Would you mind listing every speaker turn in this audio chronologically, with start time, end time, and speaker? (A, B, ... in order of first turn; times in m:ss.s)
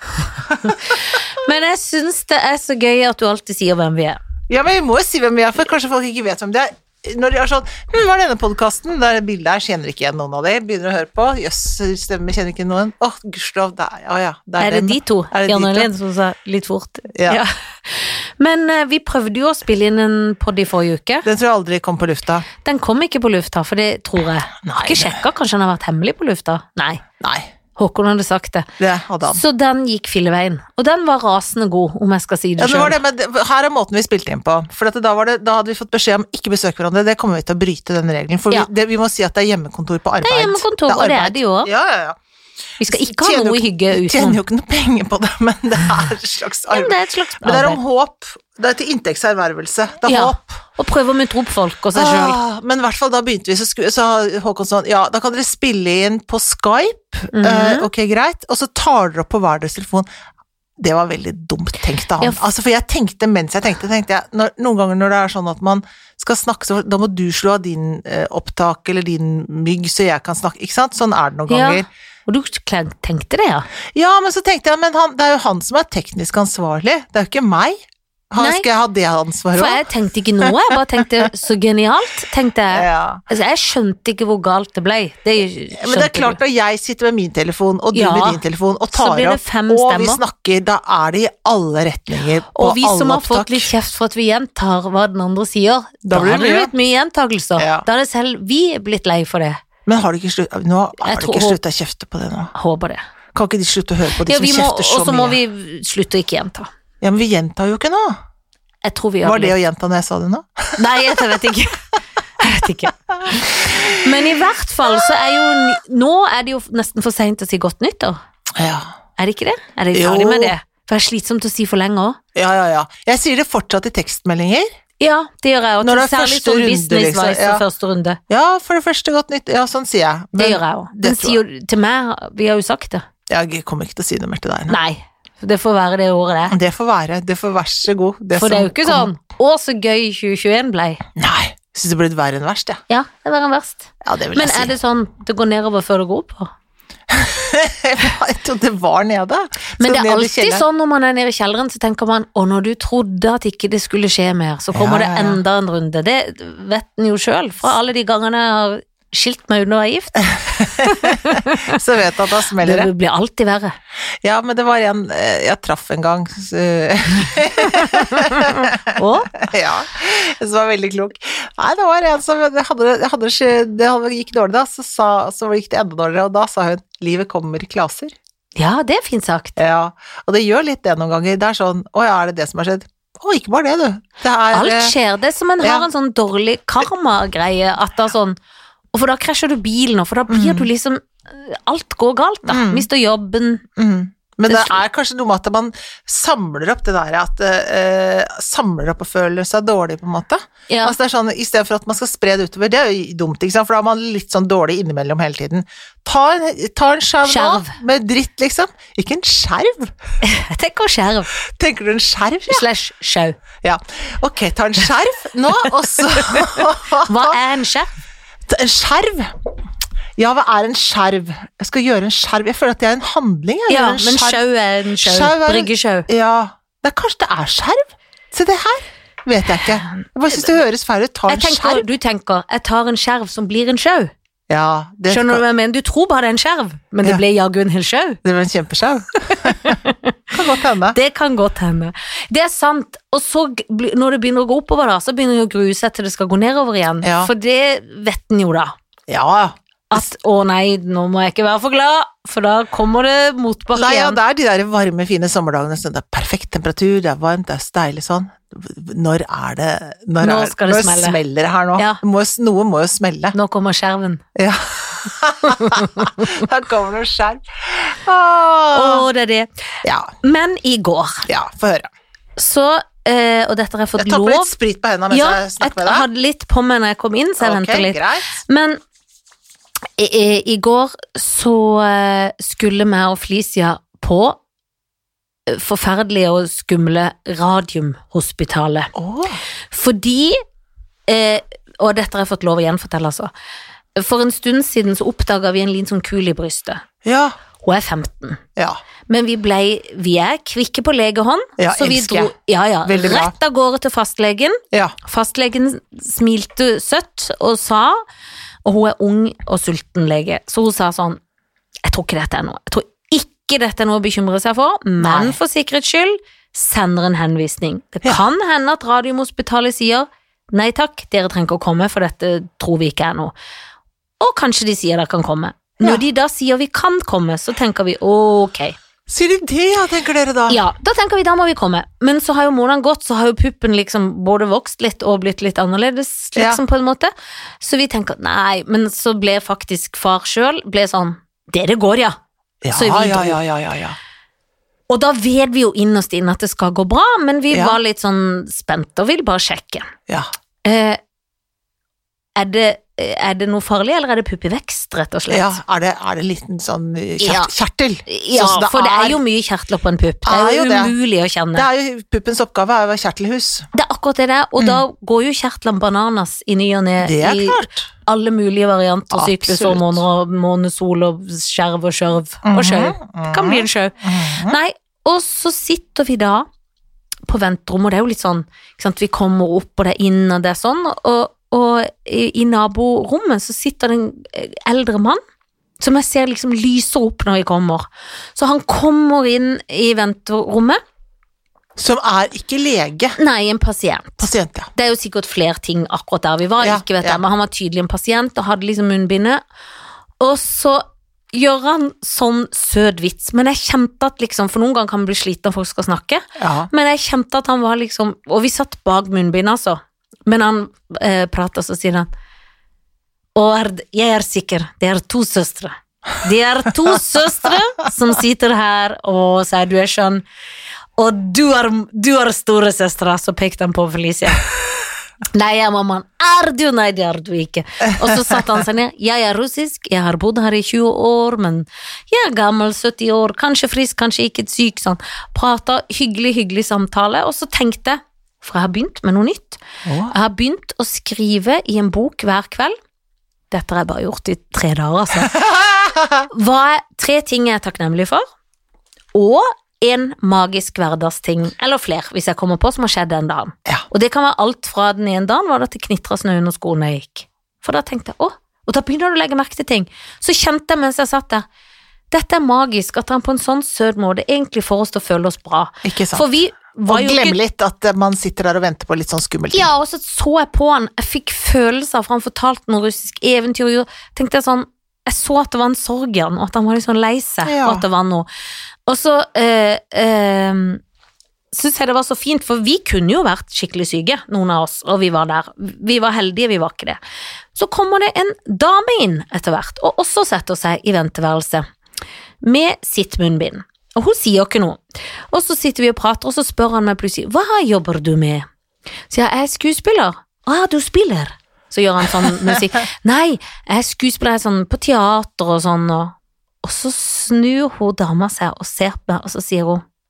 0:00.4-0:01.0 A
0:01.0-0:04.2 B
0:04.5-0:15.9 A
0:14.6-0:21.3 B
0:17.1-0:17.4 A
0:21.2-0:22.5 A
0:22.6-0:27.0 B
0:24.6-0:25.2 A
0:27.2-0:27.5 A
0:27.8-0:28.7 B
0:28.8-0:29.4 A
0:29.3-0:33.0 B
0:32.6-0:42.2 A
0:40.2-0:41.7 B
0:42.8-0:44.4 B
0:42.8-0:50.6 A
0:46.7-0:47.8 B
0:50.1-0:52.4 B
0:52.0-1:00.1 A
0:57.3-0:57.9 B
1:00.8-1:11.9 A
1:11.5-1:13.7 B
1:13.9-1:19.8 A
1:18.4-1:18.7 B
1:19.5-1:26.4 B
1:20.4-1:20.8 A
1:22.7-1:23.2 A
1:25.8-1:33.7 A
1:27.9-1:28.4 B
1:28.9-1:30.2 B
1:32.6-1:39.6 B
1:36.0-1:36.7 A
1:37.6-1:37.9 A
1:39.9-1:42.5 A
1:41.0-1:41.6 B
1:42.5-1:43.0 B
1:43.3-1:45.4 A
1:44.2-1:46.7 B
1:47.0-1:48.2 A
1:48.8-1:49.6 B
1:49.2-1:51.5 A
1:50.8-1:51.8 B
1:52.4-1:58.2 B
1:53.2-1:54.1 A
1:55.0-1:55.7 A
1:58.6-1:58.9 A
1:59.2-2:02.2 B
1:59.9-2:00.6 A
2:02.4-2:04.7 A
2:05.0-2:08.2 B
2:05.8-2:07.6 A
2:08.3-2:11.4 A
2:10.3-2:13.1 B
2:13.3-2:14.8 A
2:14.7-2:16.6 B
2:16.5-2:19.1 A
2:18.4-2:21.0 B
2:21.2-2:22.8 A
2:22.9-2:26.5 B
2:24.0-2:24.7 A
2:27.1-2:30.6 A
2:29.8-2:41.8 B
2:34.7-2:35.4 A
2:40.6-2:42.9 A
2:42.6-2:43.8 B
2:44.2-2:58.1 A
2:47.6-2:49.3 B
2:58.6-2:59.6 B
2:59.6-3:04.9 A
3:04.5-3:08.4 B
3:05.6-3:05.9 A
3:08.9-3:13.6 B
3:10.3-3:10.7 A
3:12.4-3:12.9 A
3:13.8-3:29.9 A
3:14.5-3:14.8 B
3:20.7-3:21.0 B
3:27.2-3:27.8 B
3:30.2-3:31.3 B
3:31.4-3:32.7 A
3:32.5-3:33.4 B
3:33.6-3:37.4 A
3:35.9-3:37.9 B
3:38.5-3:39.3 A
3:40.2-3:44.4 A
3:43.7-3:46.1 B
3:45.0-3:51.9 A
3:51.3-3:54.1 B
3:54.5-3:55.4 A
3:55.1-3:58.2 B
3:58.2-3:59.8 A
3:59.3-4:00.2 B
4:00.3-4:01.0 A
4:00.9-4:08.8 B
4:07.0-4:07.3 A
4:09.1-4:10.1 A
4:09.9-4:14.2 B
4:13.8-4:23.4 A
4:20.2-4:21.2 B
4:23.3-4:24.2 B
4:24.4-4:29.0 A
4:25.5-4:26.2 B
4:28.7-4:29.5 B
4:29.8-4:30.1 A
4:30.2-4:31.3 B
4:31.3-4:31.9 A
4:32.4-4:34.5 B
4:34.0-4:36.1 A
4:35.1-4:38.8 B
4:37.4-4:38.4 A
4:40.0-4:44.4 B
4:45.5-4:48.9 B
4:48.9-4:49.4 A
4:49.7-4:50.4 B
4:51.1-4:53.3 B
4:54.0-4:56.8 B
4:57.0-4:57.4 A
4:57.6-4:58.4 B
4:59.1-5:08.0 B
5:01.6-5:02.3 A
5:02.8-5:03.3 A
5:08.6-5:11.2 B
5:11.8-5:23.3 B
5:15.0-5:15.4 A
5:24.2-5:28.8 B
5:29.1-5:30.6 A
5:30.5-5:42.2 B
5:42.6-5:44.0 A
5:42.7-5:43.4 B
5:44.9-5:49.9 B
5:47.5-5:47.8 A
5:50.6-5:51.0 B
5:52.4-5:55.6 B
5:55.3-5:59.2 A
5:57.2-5:57.5 B
5:58.1-6:01.7 B
6:00.2-6:00.9 A
6:01.6-6:03.7 A
6:03.7-6:16.5 B
6:04.6-6:04.8 A
6:07.0-6:07.8 A
6:09.1-6:10.0 A
6:12.4-6:14.6 A
6:17.3-6:25.2 B
6:25.8-6:30.8 B
6:31.8-6:33.2 A
6:33.2-6:39.4 B
6:34.2-6:34.7 A
6:36.6-6:37.2 A
6:40.2-6:52.1 B
6:46.4-6:46.7 A
6:53.4-7:00.2 B
7:01.0-7:04.5 B
7:05.3-7:22.8 B
7:08.1-7:08.4 A
7:19.8-7:20.1 A
7:23.5-7:25.5 B
7:25.3-7:26.2 A
7:26.3-7:28.2 B
7:29.1-7:41.4 B
7:42.1-7:47.4 B
7:45.8-7:46.2 A
7:46.9-7:49.7 A
7:49.5-7:58.3 B
7:57.4-7:57.8 A
7:58.9-8:00.8 B
8:01.5-8:07.0 B
8:07.6-8:11.7 B
8:12.4-8:18.5 B
8:19.1-8:29.8 B
8:22.2-8:22.5 A